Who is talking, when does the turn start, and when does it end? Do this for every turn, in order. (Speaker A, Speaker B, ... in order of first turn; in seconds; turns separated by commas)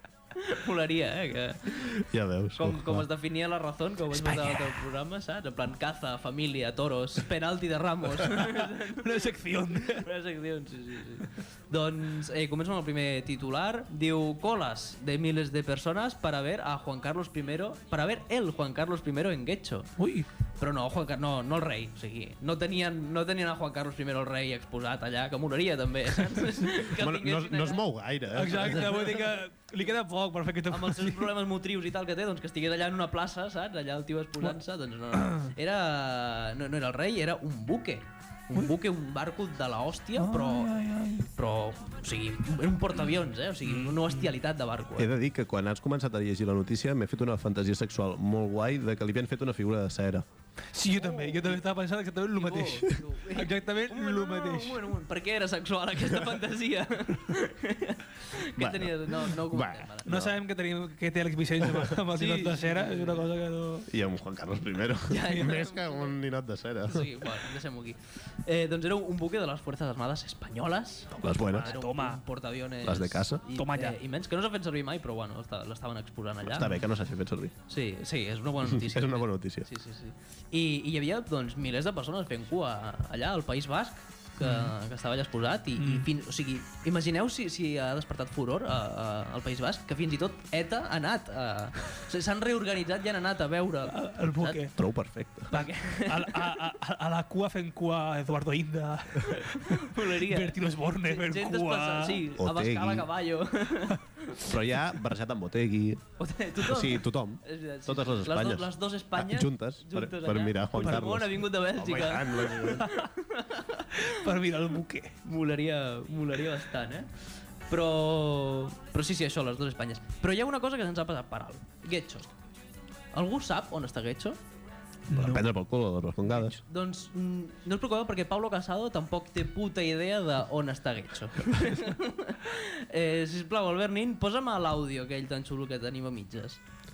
Speaker A: 0.3-1.9, Speaker B: 1.8-3.0, Speaker A: 2.5-9.2, Speaker C: 4.1-4.8, Speaker C: 8.2-10.1, Speaker A: 9.9-19.9, Speaker C: 20.0-20.3, Speaker A: 20.6-27.8, Speaker B: 26.9-29.2, Speaker C: 28.3-31.4, Speaker A: 30.7-40.8, Speaker C: 35.2-35.5, Speaker C: 40.2-41.3, Speaker A: 41.3-45.1, Speaker C: 43.6-44.3, Speaker B: 45.0-50.2, Speaker C: 50.7-54.9, Speaker A: 51.0-51.6, Speaker A: 52.4-60.1, Speaker B: 58.6-60.4, Speaker C: 60.0-63.9, Speaker A: 62.1-63.2, Speaker B: 63.9-67.2, Speaker A: 65.1-66.2, Speaker A: 66.8-76.8, Speaker B: 71.1-71.7, Speaker C: 71.6-72.2, Speaker B: 72.8-73.4, Speaker C: 73.5-74.0, Speaker B: 76.4-77.5, Speaker A: 77.7-94.6, Speaker B: 78.7-79.7, Speaker C: 84.4-84.7, Speaker C: 85.8-86.1, Speaker C: 93.9-94.8, Speaker B: 94.8-95.5, Speaker A: 95.5-96.6, Speaker C: 95.5-102.3, Speaker A: 99.2-104.5, Speaker B: 102.4-103.1, Speaker B: 104.4-106.0, Speaker A: 106.2-114.2, Speaker B: 106.6-112.9, Speaker C: 110.8-111.2, Speaker C: 112.6-113.1, Speaker C: 113.9-115.2, Speaker A: 115.2-117.1, Speaker A: 117.7-122.3, Speaker A: 123.1-124.4, Speaker C: 125.1-125.5, Speaker B: 125.1-126.6, Speaker A: 126.5-136.6